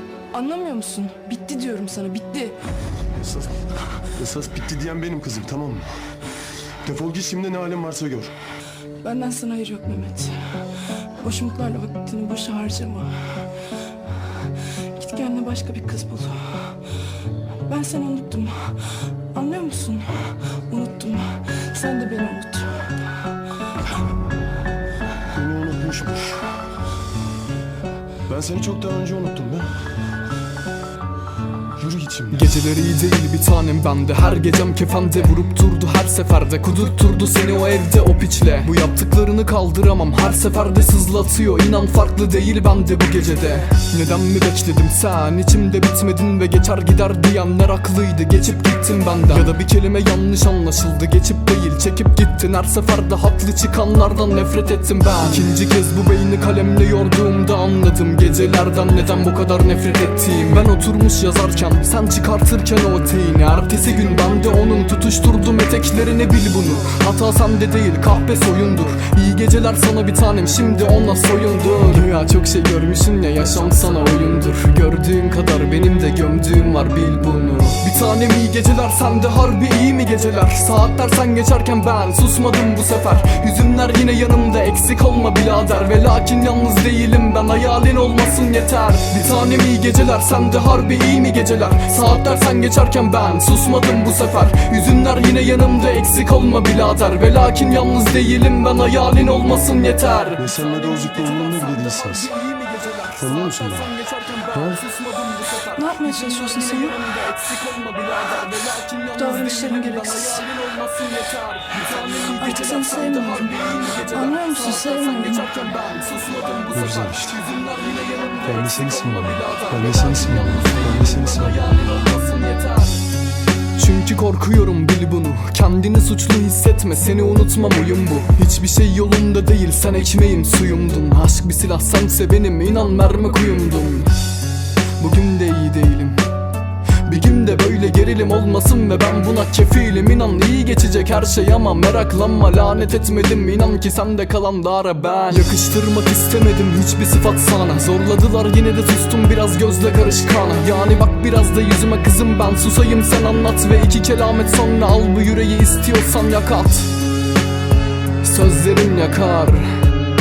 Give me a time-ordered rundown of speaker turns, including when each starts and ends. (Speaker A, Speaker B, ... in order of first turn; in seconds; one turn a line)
Speaker A: 0.3-2.5
Speaker B: 3.2-3.5
Speaker B: 4.1-5.9
Speaker B: 6.8-8.3
Speaker A: 9.0-13.4
Speaker A: 14.9-16.8
Speaker A: 17.6-23.0
Speaker B: 25.3-26.4
Speaker B: 28.3-29.7
Speaker B: 31.8-32.4
Speaker C: 32.3-123.0
Speaker B: 100.4-102.3
Speaker B: 103.2-103.9
Speaker B: 104.5-104.8
Speaker A: 105.7-107.0
Speaker A: 109.2-110.5
Speaker A: 112.4-115.5
Speaker B: 116.7-117.3
Speaker B: 118.5-121.5
Speaker C: 123.8-134.1
Speaker C: 135.0-136.2
Speaker C: 137.0-156.9
Speaker C: 158.2-159.8